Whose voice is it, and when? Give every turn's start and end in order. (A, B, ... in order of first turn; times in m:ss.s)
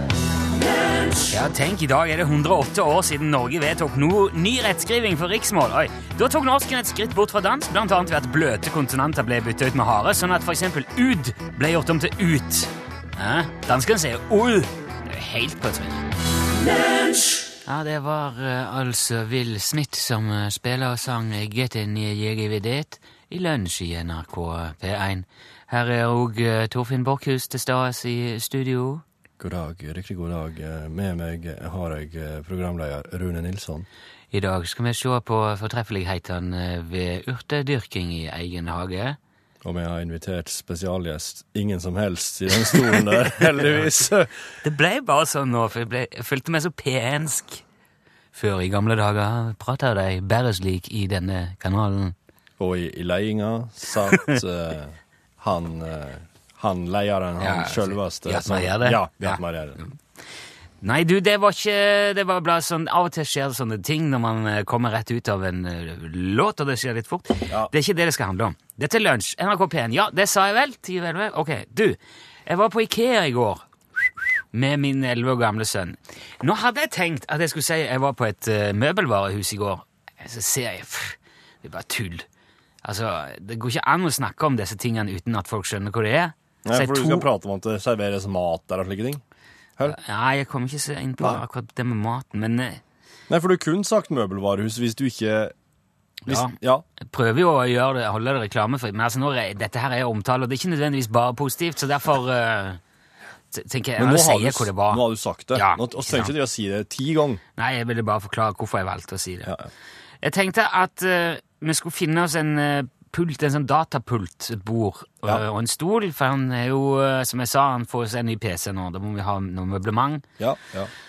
0:01.3-0:16.1 A
0:17.6-0:29.0 A
0:29.4-0:33.9 B
0:34.3-0:39.2 A
0:39.6-0:44.4 B
0:42.7-0:43.8 A
0:44.6-0:47.6 A
0:48.3-0:52.2 A
0:52.6-0:59.8 B
0:57.4-1:00.0 A
1:00.8-1:13.6 A
1:14.5-1:22.3 A
1:22.8-1:27.3 A
1:26.6-1:29.2 B
1:29.9-1:32.8 A
1:33.3-1:35.5 B
1:36.3-1:42.8 A
1:36.3-1:36.8 B
1:43.5-1:45.0 A
1:44.0-1:47.4 B
1:45.5-1:46.3 A
1:47.6-1:49.5 A
1:49.4-1:49.7 B
1:50.2-2:00.2 A
2:00.4-2:00.9 B